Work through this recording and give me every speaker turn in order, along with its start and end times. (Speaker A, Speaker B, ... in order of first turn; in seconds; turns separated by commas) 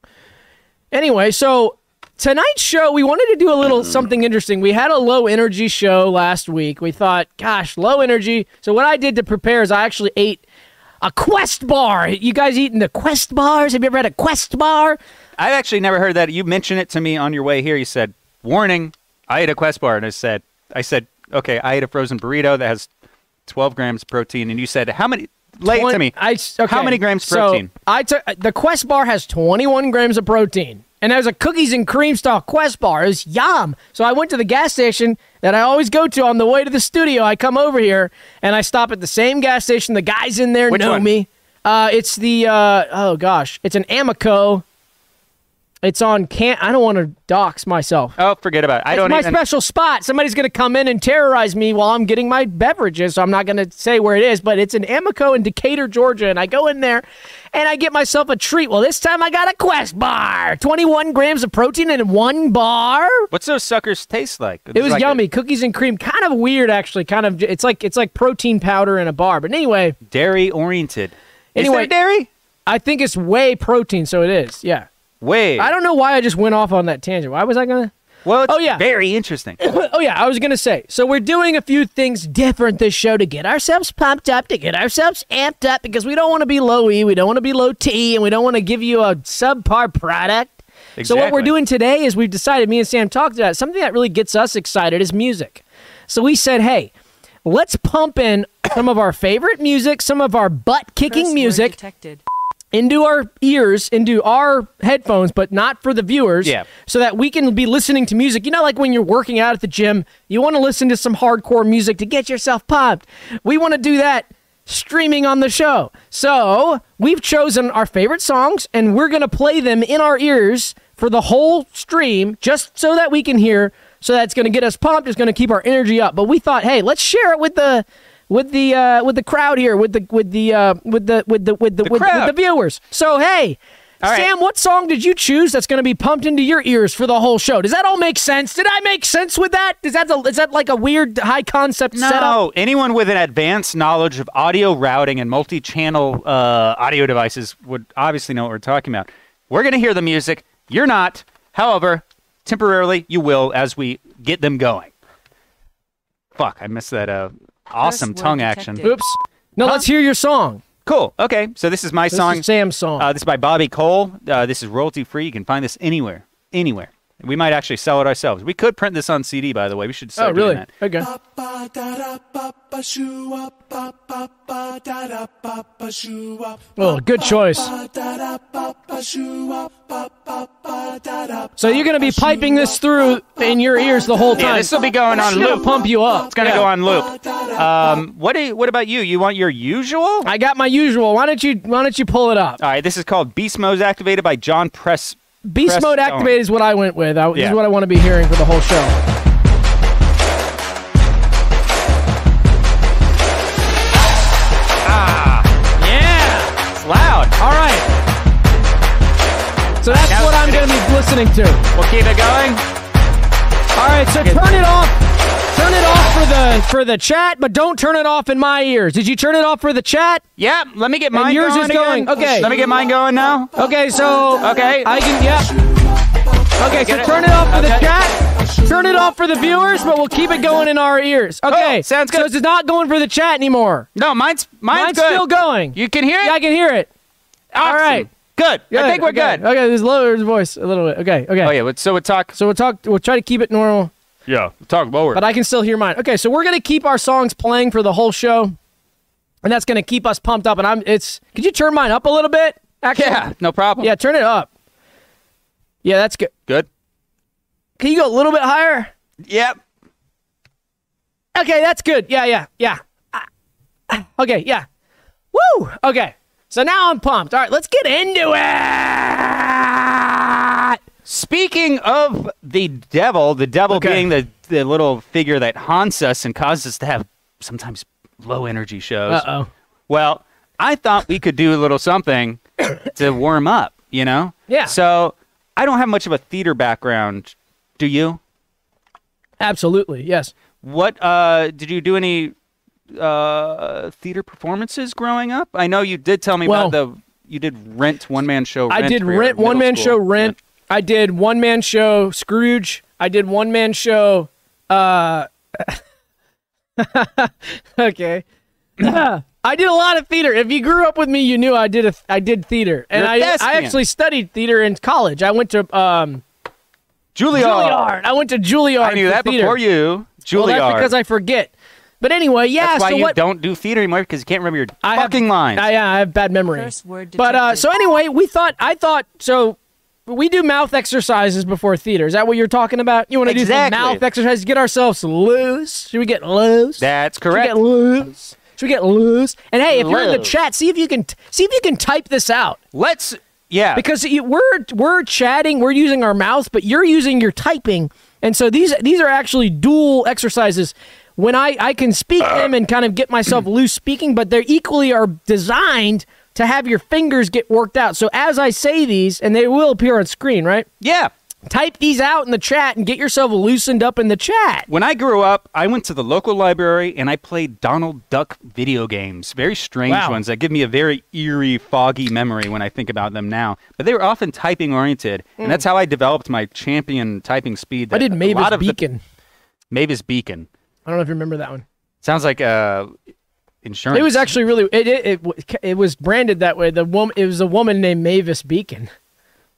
Speaker A: 0.9-10.4, Speaker A: 11.0-15.0, Speaker B: 15.4-22.9, Speaker B: 23.5-27.7, Speaker A: 25.7-44.6, Speaker B: 40.7-41.1, Speaker A: 45.8-48.1, Speaker B: 48.2-49.4, Speaker A: 48.9-63.3, Speaker B: 63.3-65.2, Speaker A: 64.7-70.0, Speaker B: 70.0-72.3, Speaker A: 71.5-71.9, Speaker A: 72.7-74.9, Speaker B: 75.2-75.7, Speaker A: 75.6-77.9, Speaker B: 78.2-79.6, Speaker A: 78.5-78.8, Speaker A: 79.6-96.9, Speaker B: 91.0-91.5, Speaker A: 97.4-101.8, Speaker C: 101.1-102.2, Speaker A: 102.7-142.4, Speaker B: 131.8-132.3, Speaker B: 134.0-134.3, Speaker B: 141.9-154.9, Speaker B: 156.3-158.9, Speaker C: 157.8-159.0, Speaker A: 158.8-160.6, Speaker B: 159.6-159.8, Speaker B: 160.8-162.4, Speaker A: 162.1-163.1, Speaker B: 163.0-170.7, Speaker A: 170.2-171.1, Speaker A: 176.8-177.9, Speaker A: 181.6-186.7, Speaker B: 184.3-190.3, Speaker A: 190.2-192.6, Speaker B: 192.6-196.4, Speaker A: 195.4-198.9, Speaker B: 197.3-197.6, Speaker B: 204.8-205.5, Speaker A: 205.8-206.5, Speaker B: 206.7-207.4, Speaker A: 207.4-207.8, Speaker A: 209.8-211.6, Speaker B: 209.9-210.7, Speaker B: 211.7-212.6, Speaker A: 213.8-215.0, Speaker B: 214.2-214.4, Speaker A: 215.5-220.2, Speaker B: 220.4-223.5, Speaker A: 221.1-222.5, Speaker A: 223.5-225.7, Speaker B: 224.4-224.9, Speaker A: 226.6-233.9, Speaker B: 226.7-227.9, Speaker B: 231.4-232.3, Speaker B: 233.9-236.4, Speaker A: 234.7-236.9, Speaker B: 237.5-239.4, Speaker A: 237.6-238.1, Speaker A: 238.7-241.5, Speaker B: 241.4-242.3, Speaker A: 242.3-243.9, Speaker B: 244.3-245.2, Speaker A: 245.1-248.6, Speaker A: 249.4-254.5, Speaker B: 252.9-253.9, Speaker A: 255.8-256.3, Speaker A: 257.8-258.9, Speaker B: 259.2-259.6, Speaker A: 261.3-263.3, Speaker A: 263.9-264.6, Speaker A: 265.3-270.8, Speaker B: 271.0-279.3, Speaker A: 273.7-274.1, Speaker A: 279.1-279.5, Speaker B: 279.9-288.2, Speaker A: 284.5-284.7, Speaker A: 289.4-290.3, Speaker B: 290.6-292.3, Speaker B: 292.9-300.3, Speaker A: 296.4-296.8, Speaker A: 298.7-305.8, Speaker A: 306.8-308.2, Speaker A: 308.8-316.2, Speaker B: 312.9-313.8, Speaker B: 317.1-317.9, Speaker A: 317.3-319.6, Speaker B: 318.8-320.9, Speaker A: 320.3-323.1, Speaker B: 322.6-325.7, Speaker A: 324.8-342.6, Speaker C: 326.5-327.7, Speaker B: 333.2-334.0, Speaker B: 336.8-337.6, Speaker B: 339.7-340.3, Speaker B: 342.7-343.8, Speaker A: 343.8-360.7, Speaker B: 360.8-361.1, Speaker A: 361.5-364.7, Speaker B: 364.7-378.8, Speaker A: 369.9-370.2, Speaker A: 377.9-379.0, Speaker B: 379.7-380.5, Speaker A: 380.9-381.6, Speaker B: 382.0-382.9, Speaker B: 383.6-384.3, Speaker A: 383.9-388.9